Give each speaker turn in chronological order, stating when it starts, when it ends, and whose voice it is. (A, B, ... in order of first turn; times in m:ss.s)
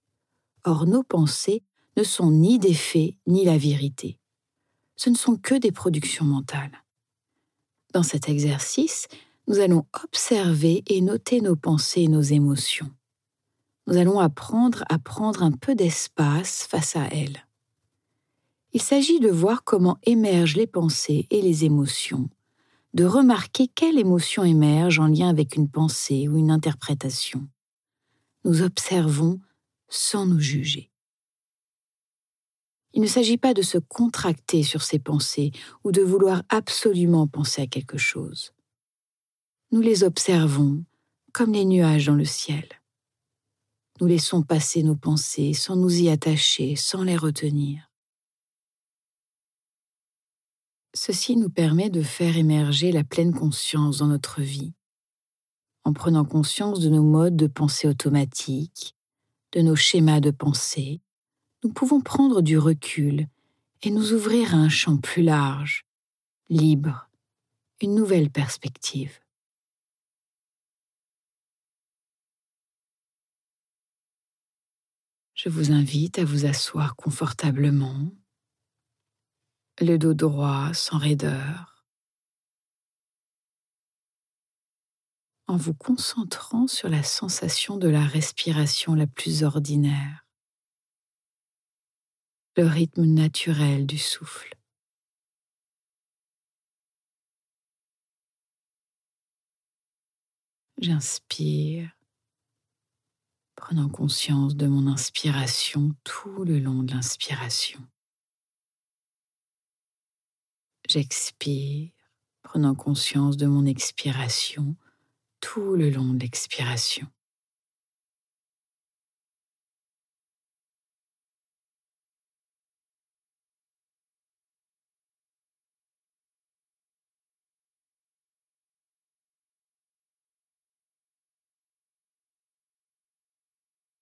0:00.6-0:04.2 A
0:05.0-0:06.8 A
0:07.9-0:12.9 A
0:13.8-0:17.4 A
0:18.7-0:22.3 A
0:22.9-0:27.5 A
0:28.4-0:30.9 A
0:32.9-0:38.5 A
0:39.7-0:42.8 A
0:44.0-0:47.9 A
0:50.9-0:54.7 A
0:55.8-0:58.9 A
0:59.5-1:01.0 A
1:01.6-1:03.3 A
1:03.8-1:05.8 A
1:06.5-1:07.1 A
1:07.8-1:09.2 A
1:15.4-1:18.2 A
1:19.8-1:21.8 A
1:25.5-1:30.3 A
1:32.6-1:34.6 A
1:40.8-1:41.9 A
1:43.6-1:47.8 A
1:50.9-1:54.8 A
1:55.4-1:57.1 A